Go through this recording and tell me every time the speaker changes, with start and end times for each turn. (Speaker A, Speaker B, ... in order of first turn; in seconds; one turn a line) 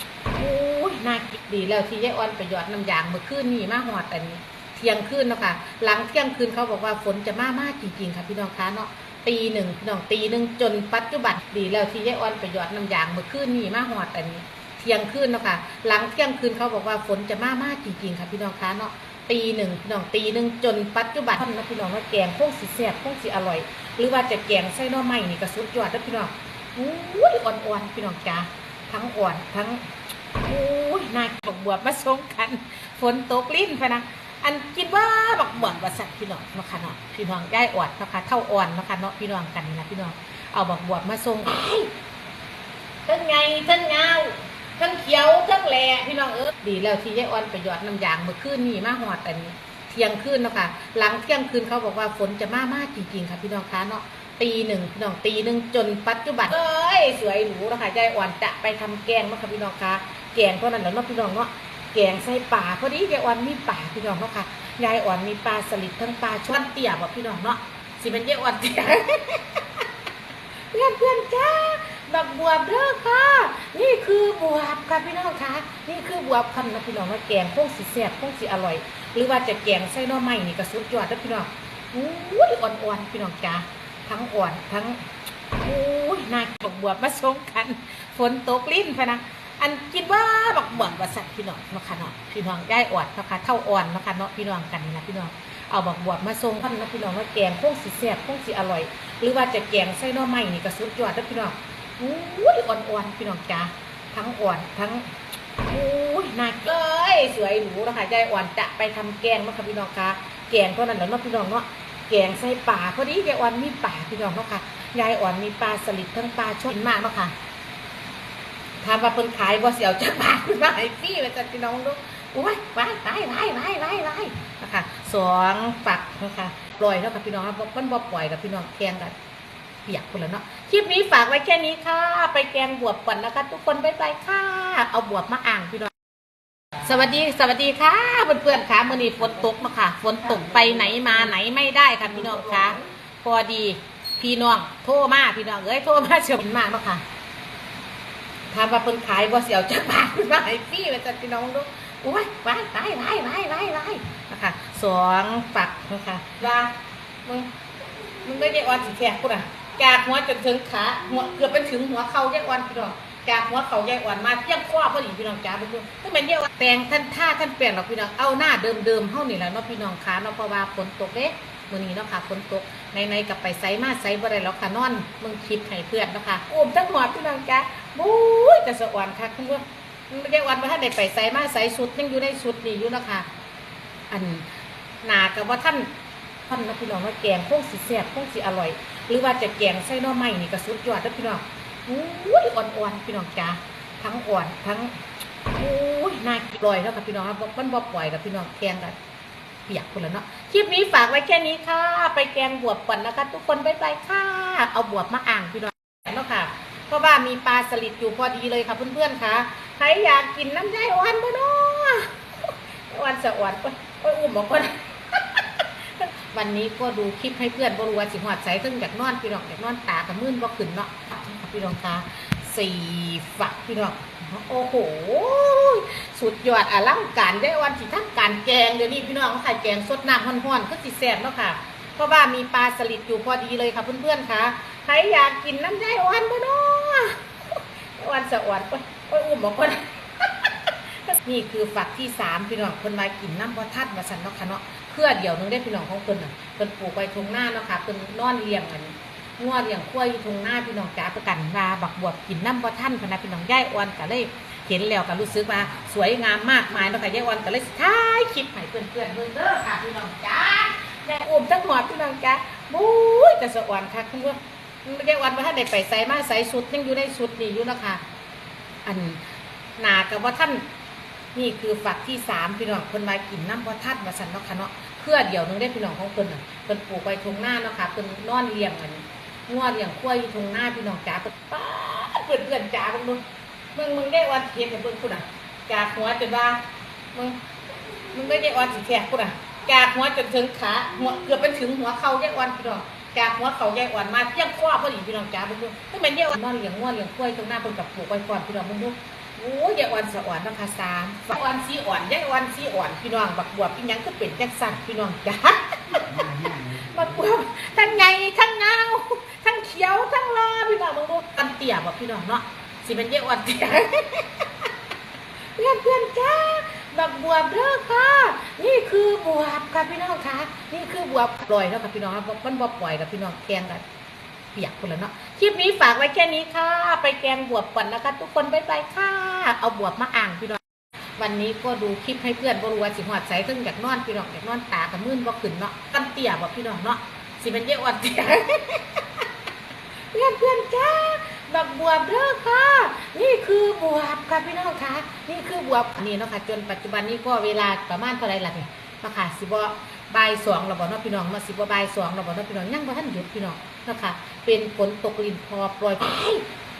Speaker A: 0.3-29.9
Speaker A: 30.4-41.9
Speaker A: 43.0-69.6
Speaker A: 70.7-85.0
Speaker A: 85.6-105.1
Speaker A: 105.7-117.3
Speaker A: 118.8-129.1
Speaker A: 129.8-135.9
Speaker A: 136.8-147.0
Speaker A: 148.5-156.7
Speaker A: 157.2-157.6
Speaker A: 158.2-183.3
Speaker A: 184.1-184.5
Speaker A: 185.0-185.9
Speaker A: 186.5-195.0
Speaker A: 195.6-198.9
Speaker A: 199.7-268.0
Speaker A: 268.8-269.2
Speaker A: 269.8-270.7
Speaker A: 271.3-283.2
Speaker A: 283.7-287.5
Speaker A: 288.1-314.4
Speaker A: 315.5-323.8
Speaker A: 324.5-330.6
Speaker A: 331.2-339.0
Speaker A: 340.1-356.5